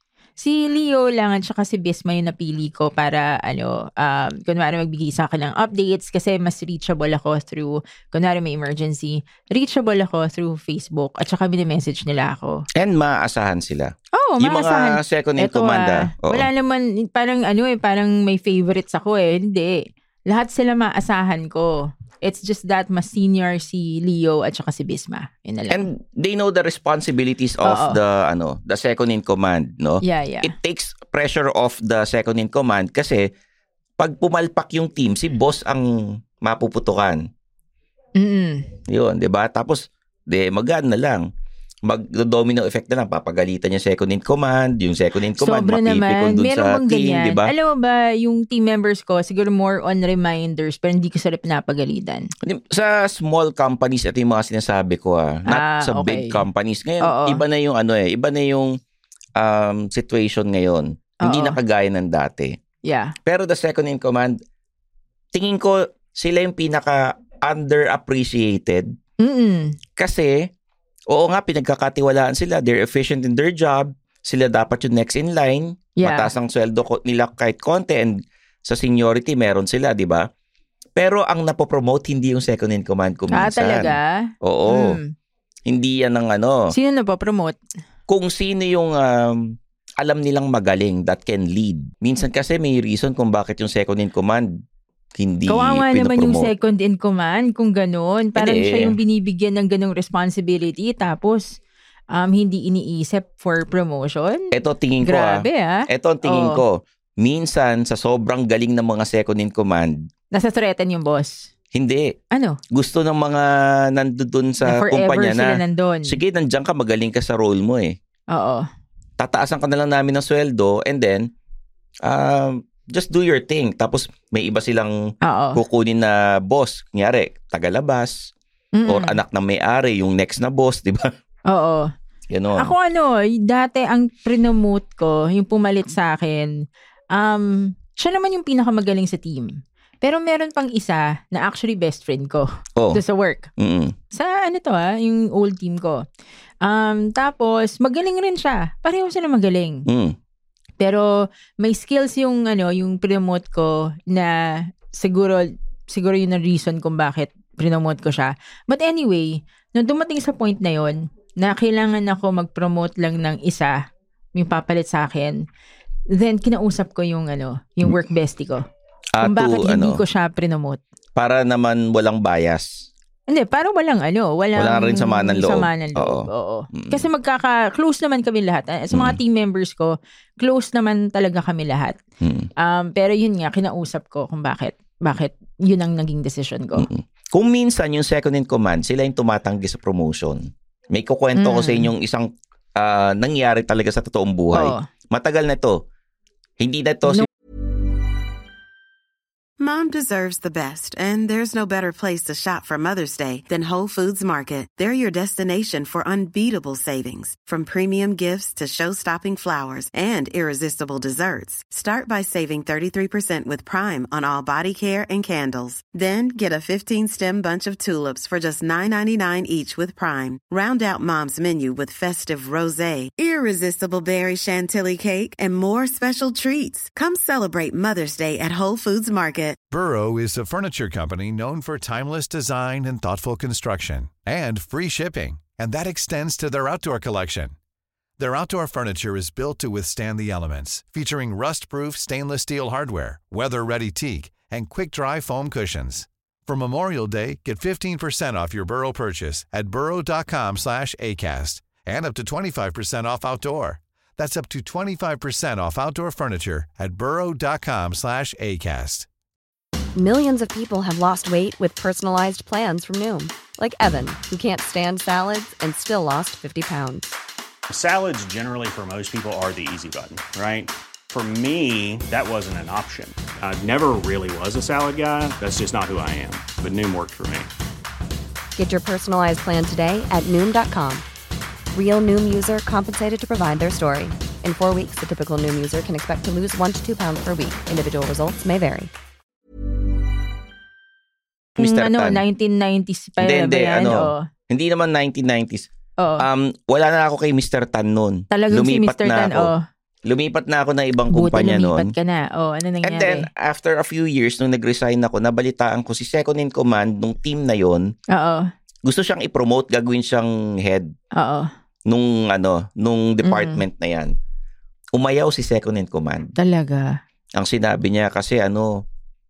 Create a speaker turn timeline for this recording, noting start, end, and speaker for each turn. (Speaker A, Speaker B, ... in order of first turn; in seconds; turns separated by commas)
Speaker A: 0.4-12.7, Speaker B: 12.8-16.5, Speaker A: 14.2-25.9, Speaker B: 25.7-33.3, Speaker A: 27.6-28.0, Speaker A: 30.0-30.5, Speaker B: 34.0-37.2, Speaker A: 38.2-38.6, Speaker B: 38.9-41.3, Speaker B: 41.8-47.5, Speaker A: 45.4-52.3, Speaker B: 52.4-58.7, Speaker A: 55.5-56.4, Speaker A: 57.0-57.4, Speaker B: 59.4-62.6, Speaker A: 61.2-61.6, Speaker A: 62.9-63.1, Speaker B: 63.3-64.4, Speaker B: 65.3-68.9, Speaker A: 69.2-69.8, Speaker B: 70.0-70.5, Speaker B: 71.1-80.3, Speaker A: 76.0-76.3, Speaker B: 81.0-85.0, Speaker A: 83.3-85.1, Speaker B: 85.7-86.7, Speaker A: 86.7-87.6, Speaker B: 88.1-94.5, Speaker B: 95.2-96.5, Speaker A: 95.5-101.6, Speaker B: 98.3-99.0, Speaker A: 102.1-104.5, Speaker B: 104.5-110.0, Speaker A: 105.0-106.6, Speaker A: 110.3-111.5, Speaker B: 111.7-112.1, Speaker A: 112.3-112.6, Speaker B: 112.7-118.0, Speaker A: 114.6-116.2, Speaker A: 118.3-118.6, Speaker B: 119.2-121.3, Speaker B: 122.0-125.0, Speaker A: 125.2-125.6, Speaker B: 125.5-128.3, Speaker A: 128.8-129.2, Speaker B: 128.9-131.1, Speaker A: 131.5-131.9, Speaker B: 132.3-132.7, Speaker A: 132.6-136.6, Speaker A: 137.1-143.5, Speaker B: 142.8-143.0, Speaker B: 143.6-143.9, Speaker A: 144.1-146.1, Speaker A: 146.6-149.8, Speaker B: 149.9-150.2, Speaker A: 150.8-163.8, Speaker A: 164.3-165.4, Speaker A: 166.1-168.6, Speaker B: 169.2-170.0, Speaker A: 169.2-170.8, Speaker B: 171.2-172.9, Speaker A: 173.3-182.0, Speaker B: 174.6-177.1, Speaker B: 178.9-179.2, Speaker B: 182.2-182.5, Speaker A: 182.6-186.9, Speaker B: 186.8-195.8, Speaker A: 191.3-191.9, Speaker A: 194.5-194.8, Speaker B: 196.6-197.3, Speaker C: 199.6-229.6, Speaker D: 229.7-237.5, Speaker D: 238.2-259.1, Speaker E: 259.9-267.2, Speaker F: 267.7-277.5, Speaker E: 278.6-281.1, Speaker E: 281.7-288.9, Speaker B: 291.6-292.2, Speaker A: 291.6-294.2, Speaker B: 293.2-299.5, Speaker A: 296.0-296.3, Speaker A: 298.3-299.6, Speaker B: 300.1-301.9, Speaker A: 301.1-303.3, Speaker B: 302.8-307.9, Speaker A: 308.1-308.4, Speaker B: 308.8-310.9, Speaker A: 311.1-311.5, Speaker B: 311.9-314.1, Speaker A: 313.2-313.6, Speaker B: 314.9-316.3, Speaker A: 316.4-317.0, Speaker B: 317.4-318.8